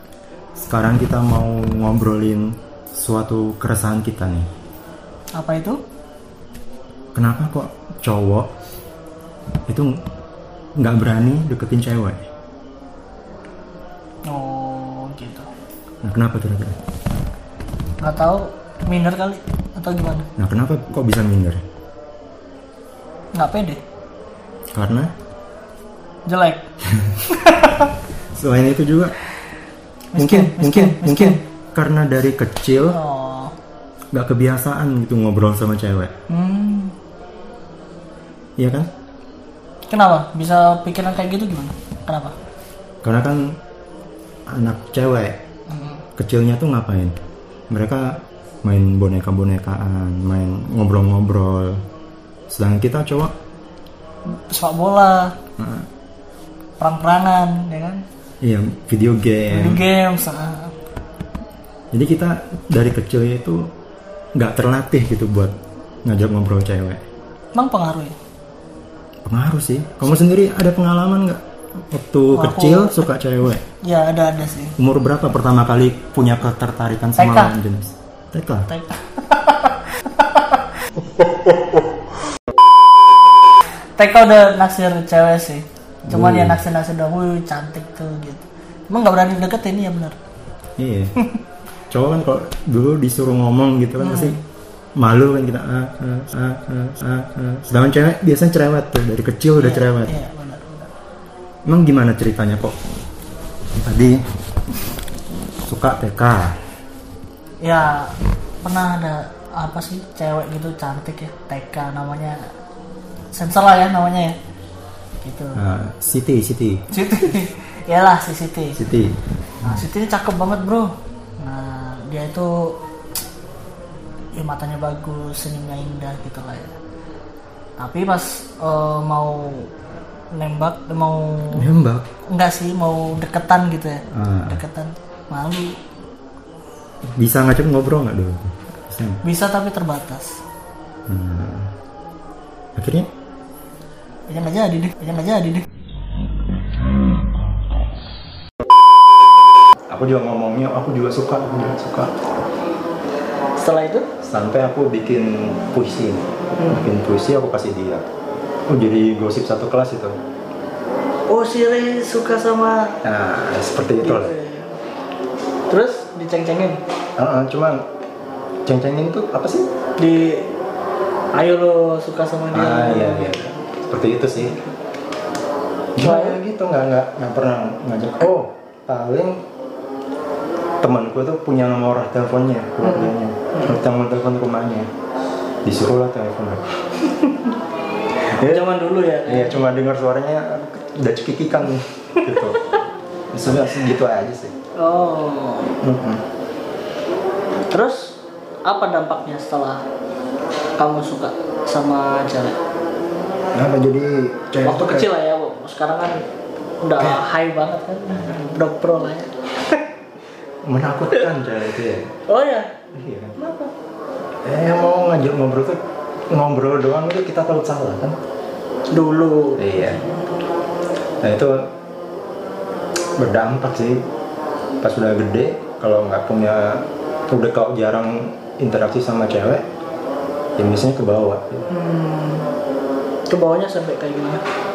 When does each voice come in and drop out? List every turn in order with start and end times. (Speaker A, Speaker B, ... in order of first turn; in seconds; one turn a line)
Speaker A: 0.6-4.5
Speaker B: 5.3-5.8
Speaker A: 7.1-8.5
Speaker A: 10.8-12.2
Speaker B: 14.3-15.5
Speaker A: 16.0-16.8
Speaker B: 18.0-20.3
Speaker A: 20.4-21.6
Speaker B: 23.3-23.8
Speaker A: 24.7-25.1
Speaker B: 26.3-26.6
Speaker B: 27.2-27.9
Speaker A: 28.3-29.2
Speaker B: 30.1-31.4
Speaker A: 30.2-33.0
Speaker B: 32.9-33.5
Speaker A: 34.1-36.1
Speaker B: 36.3-36.9
Speaker A: 38.6-38.9
Speaker B: 39.9-42.4
Speaker A: 43.0-43.5
Speaker A: 44.5-45.4
Speaker B: 45.7-46.0
Speaker A: 46.2-47.1
Speaker A: 47.7-51.8
Speaker A: 52.5-53.3
Speaker B: 54.2-55.3
Speaker A: 55.6-55.9
Speaker B: 56.8-58.0
Speaker A: 58.4-59.8
Speaker B: 59.5-60.7
Speaker A: 61.9-63.7
Speaker A: 64.3-67.0
Speaker B: 67.5-68.2
Speaker A: 69.2-73.6
Speaker B: 72.3-73.1
Speaker B: 73.7-74.7
Speaker A: 74.8-78.7
Speaker B: 77.2-77.5
Speaker B: 78.7-80.8
Speaker B: 84.0-90.2
Speaker A: 86.1-86.6
Speaker A: 90.8-91.2
Speaker A: 91.9-94.4
Speaker B: 94.0-94.4
Speaker A: 95.0-100.1
Speaker B: 99.6-100.9
Speaker A: 101.7-102.7
Speaker A: 103.8-104.2
Speaker A: 105.6-106.5
Speaker B: 107.6-112.4
Speaker B: 113.3-114.4
Speaker B: 115.2-115.6
Speaker A: 115.5-116.8
Speaker B: 116.9-118.8
Speaker A: 118.8-119.1
Speaker B: 119.6-122.8
Speaker B: 124.3-126.8
Speaker B: 127.8-129.7
Speaker B: 130.3-131.7
Speaker A: 131.5-132.1
Speaker B: 132.3-135.8
Speaker A: 134.1-134.6
Speaker A: 137.2-139.2
Speaker B: 139.2-140.4
Speaker A: 141.1-141.7
Speaker A: 142.8-143.1
Speaker B: 144.3-145.6
Speaker A: 149.9-152.1
Speaker B: 153.6-154.1
Speaker A: 154.2-158.1
Speaker B: 156.6-156.9
Speaker A: 158.7-160.1
Speaker B: 161.3-163.0
Speaker A: 163.0-164.3
Speaker B: 164.0-164.8
Speaker B: 165.7-166.8
Speaker A: 167.2-167.8
Speaker A: 168.7-169.7
Speaker B: 170.0-170.5
Speaker B: 171.3-173.6
Speaker A: 172.5-174.6
Speaker B: 174.4-174.7
Speaker A: 175.9-179.4
Speaker B: 176.0-176.4
Speaker A: 180.8-184.9
Speaker B: 182.8-183.8
Speaker A: 185.6-186.8
Speaker B: 187.1-187.6
Speaker B: 188.2-189.7
Speaker A: 188.3-188.6
Speaker A: 189.2-192.6
Speaker A: 193.3-194.5
Speaker B: 194.8-195.7
Speaker A: 195.8-196.2
Speaker B: 197.7-199.8
Speaker B: 200.8-202.6
Speaker A: 203.5-205.1
Speaker B: 204.6-206.2
Speaker B: 206.8-209.8
Speaker A: 210.6-212.1
Speaker B: 212.3-212.7
Speaker A: 212.9-213.7
Speaker A: 214.4-215.8
Speaker A: 216.3-218.2
Speaker B: 218.9-220.2
Speaker A: 219.6-220.0
Speaker A: 221.2-221.5
Speaker A: 223.2-224.0
Speaker A: 224.8-229.6
Speaker A: 230.6-231.7
Speaker B: 231.7-232.5
Speaker B: 233.3-234.4